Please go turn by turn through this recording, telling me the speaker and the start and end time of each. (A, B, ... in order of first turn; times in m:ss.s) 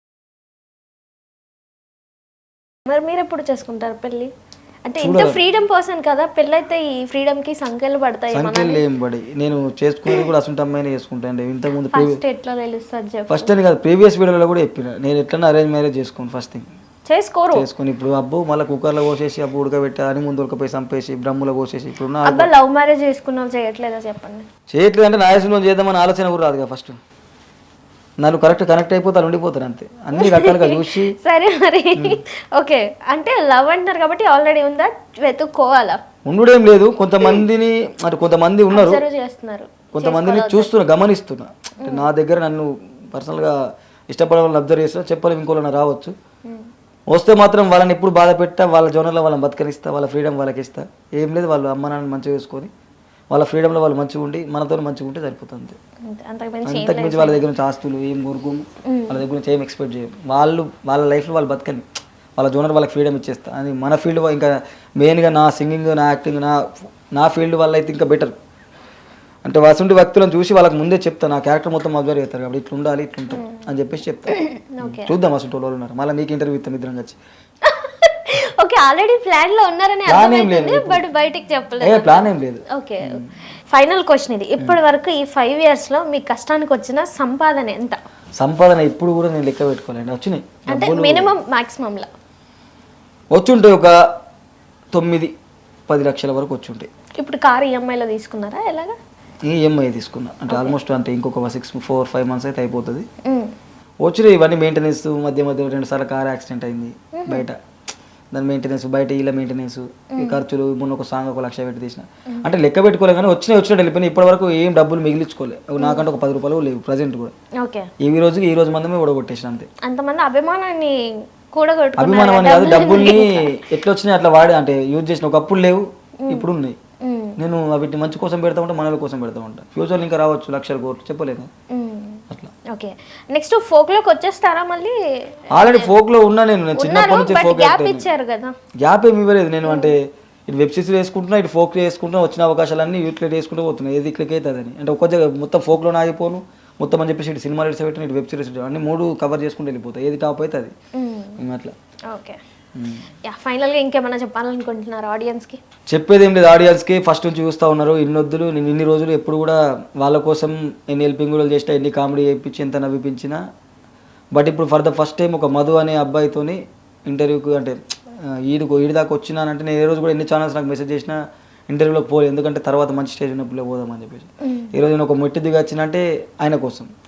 0:02.9-0:04.3 A
0:04.9-0:08.8 A
0:05.0-0:05.4 B
0:08.3-0:12.2 B
0:11.8-0:13.5 A
0:13.3-0:16.7 B
0:17.1-0:17.7 A
0:17.5-0:22.5 B
0:22.2-0:24.4 A
0:24.7-0:27.0 B
0:28.2-0:31.2 B
0:30.1-0:36.0 A
0:32.0-0:32.2 B
0:36.2-0:39.0 B
0:38.7-0:40.7 A
0:39.9-0:43.6 B
0:44.1-0:46.1 B
0:47.1-0:52.7 B
0:53.3-0:55.8 B
0:56.1-0:57.4 A
0:56.6-1:01.8 B
0:58.9-0:59.2 A
1:02.4-1:08.3 B
1:09.4-1:17.2 B
1:13.3-1:13.7 A
1:14.3-1:15.1 A
1:17.6-1:28.0 A
1:20.1-1:21.0 B
1:21.8-1:23.3 B
1:28.4-1:31.4 B
1:30.7-1:32.1 A
1:33.3-1:34.0 B
1:34.9-1:35.3 B
1:35.9-1:36.9 B
1:37.2-1:38.9 A
1:39.5-1:43.1 B
1:40.5-1:40.8 A
1:43.2-1:43.5 A
1:44.0-1:47.6 B
1:47.2-1:47.4 A
1:48.3-1:57.3 B
1:50.1-1:50.4 A
1:55.8-1:56.0 A
1:57.6-1:57.9 A
1:58.0-1:59.7 B
1:59.8-2:00.9 A
2:01.5-2:03.5 A
2:02.0-2:06.8 B
2:06.2-2:06.5 A
2:07.0-2:07.4 A
2:07.4-2:11.5 B
2:11.7-2:15.9 A
2:15.5-2:18.1 B
2:16.8-2:18.5 A
2:18.8-2:30.7 B
2:19.6-2:20.0 A
2:31.0-2:31.4 A
2:31.4-2:31.7 B
2:32.1-2:32.4 A
2:32.8-2:33.1 B
2:33.3-2:35.6 A
2:35.9-2:43.4 B
2:44.3-2:51.2 B
2:51.7-2:56.9 B
2:54.4-2:54.8 A